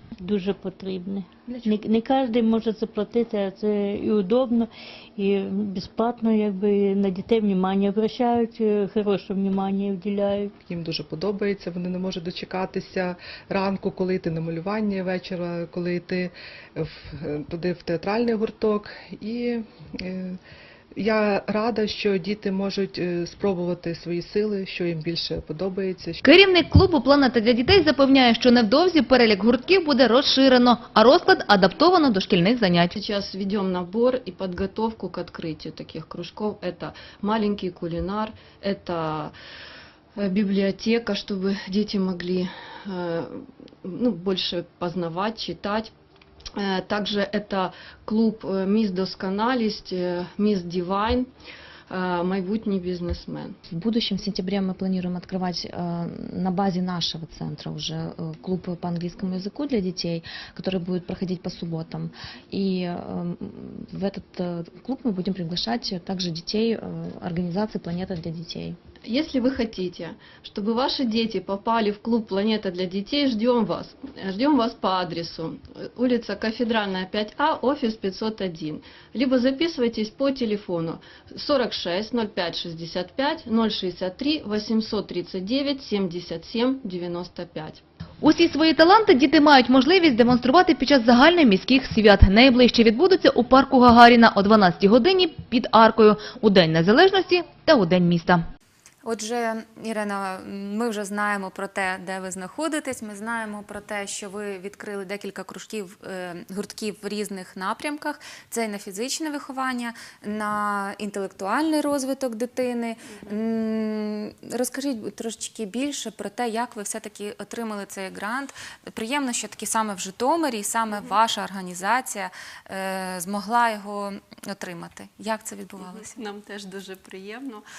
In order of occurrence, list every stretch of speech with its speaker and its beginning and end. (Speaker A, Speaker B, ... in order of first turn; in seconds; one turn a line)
Speaker A: 0.2-10.5
Speaker B: 10.6-20.4
Speaker B: 21.0-26.2
Speaker C: 26.2-33.0
Speaker D: 33.0-39.3
Speaker D: 40.2-45.9
Speaker D: 46.6-51.3
Speaker D: 51.9-53.5
Speaker E: 53.7-68.8
Speaker D: 69.1-87.8
Speaker C: 88.2-98.4
Speaker F: 99.0-126.2
Speaker D: 113.1-113.4
Speaker D: 125.8-127.6